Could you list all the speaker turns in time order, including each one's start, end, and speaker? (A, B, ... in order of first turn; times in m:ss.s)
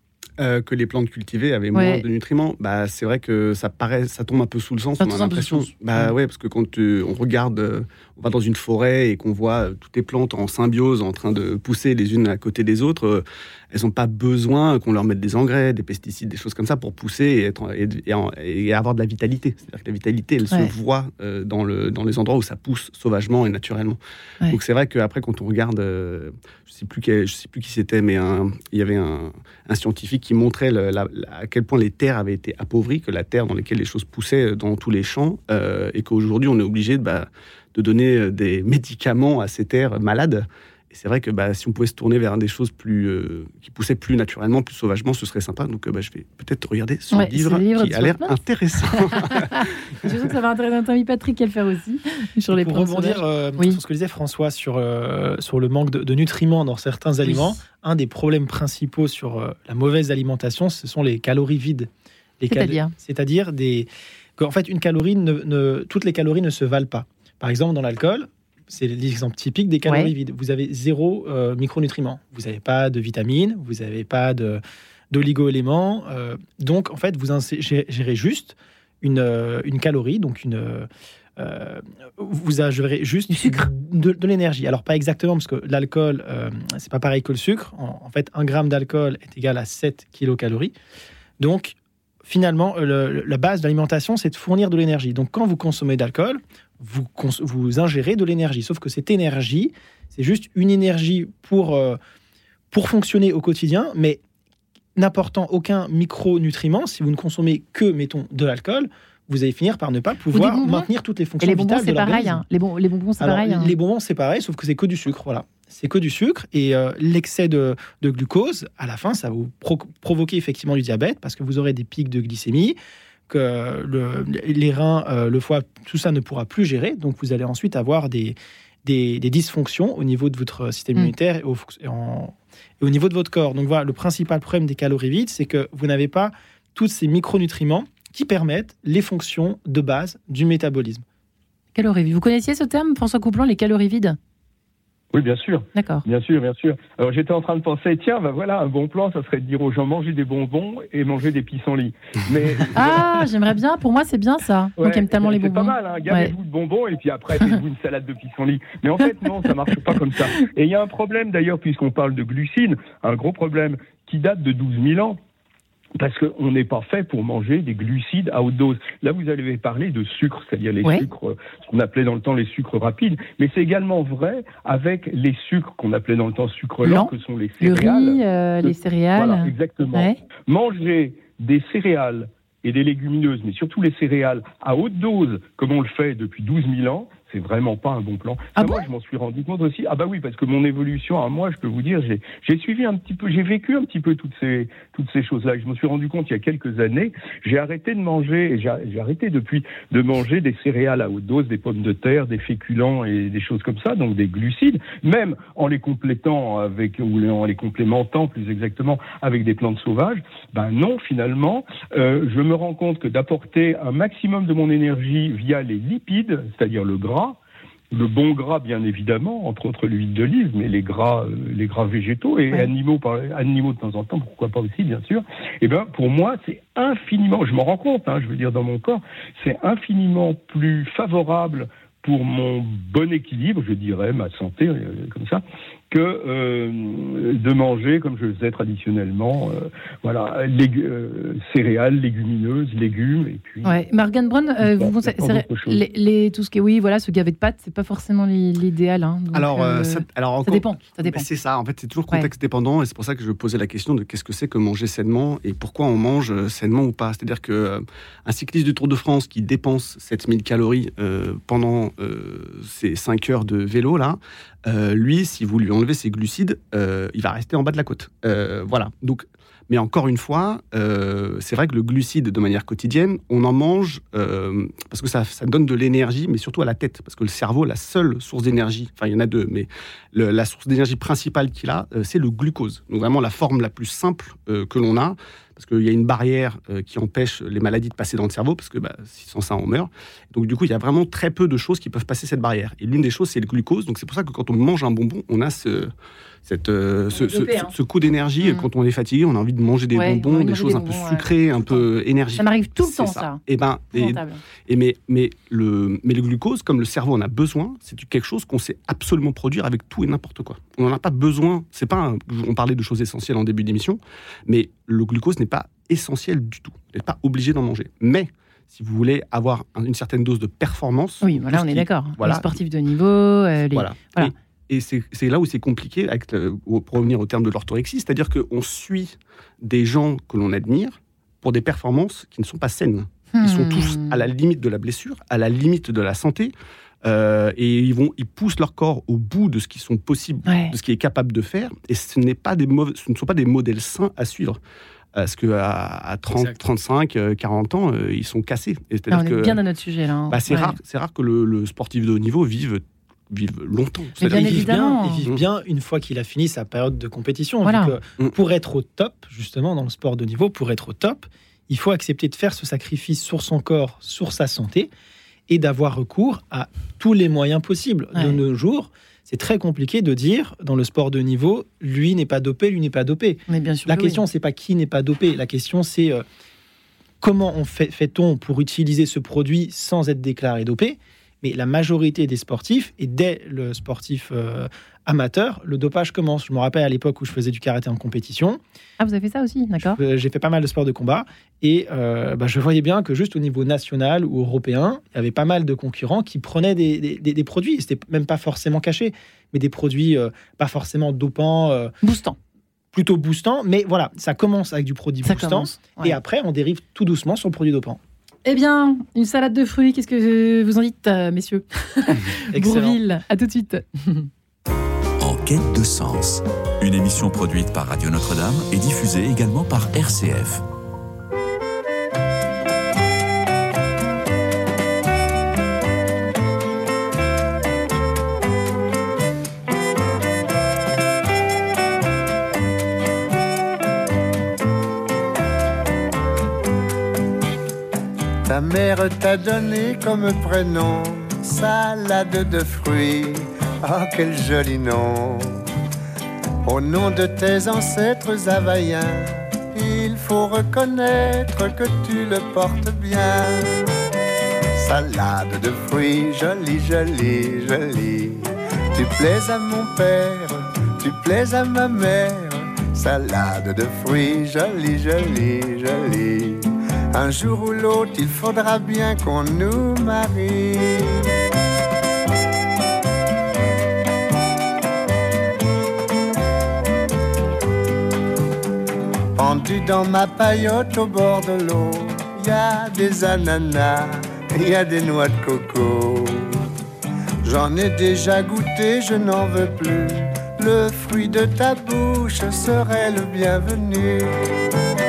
0:00.4-0:50.1 A
0:01.7-0:02.0 B
0:05.0-0:06.1 B
0:47.1-0:48.4 B
0:48.9-0:53.8 B
0:52.5-1:30.7 C
0:57.2-0:57.6 B
1:02.5-1:02.9 B
1:09.8-1:10.1 B
1:23.3-1:23.7 B
1:31.4-1:42.0 C
1:42.7-1:44.2 C
1:45.0-1:52.4 C
1:50.3-1:50.9 B
1:51.4-1:53.8 B
1:53.2-2:02.8 C
2:03.3-2:21.0 C
2:21.8-2:24.2 B
2:25.1-2:33.2 D
2:25.8-2:26.0 B
2:32.7-2:36.3 B
2:34.8-2:45.2 D
2:46.0-3:37.4 D
2:56.8-3:00.2 B
3:08.6-3:08.8 B
3:37.9-4:03.8 D
4:03.6-4:11.2 B
4:04.6-4:05.8 D
4:09.3-4:55.9 A
4:56.5-5:22.5 A
4:57.1-4:57.7 B
4:58.4-4:58.7 B
4:59.9-5:01.8 B
5:02.4-5:04.4 B
5:21.2-5:24.3 B
5:23.7-5:44.6 A
5:33.3-5:34.2 B
5:40.5-5:40.7 B
5:45.2-5:49.6 A
5:49.1-5:50.8 B
5:50.3-5:55.4 A
5:54.2-5:55.3 B
5:54.2-6:04.9 C
5:57.6-5:58.0 B
6:05.5-6:16.2 C
6:13.5-6:14.2 B
6:17.2-6:28.6 C
6:29.0-6:30.0 B
6:29.8-6:41.9 C
6:42.0-6:42.4 B
6:42.9-6:48.0 C
6:45.2-6:46.2 B
6:48.4-6:54.3 B
6:52.5-6:53.0 C
6:55.2-7:00.6 E
7:18.5-7:25.6 F
7:26.6-7:33.8 F
7:34.8-7:51.3 F
7:59.4-8:06.7 F
8:07.4-8:14.3 F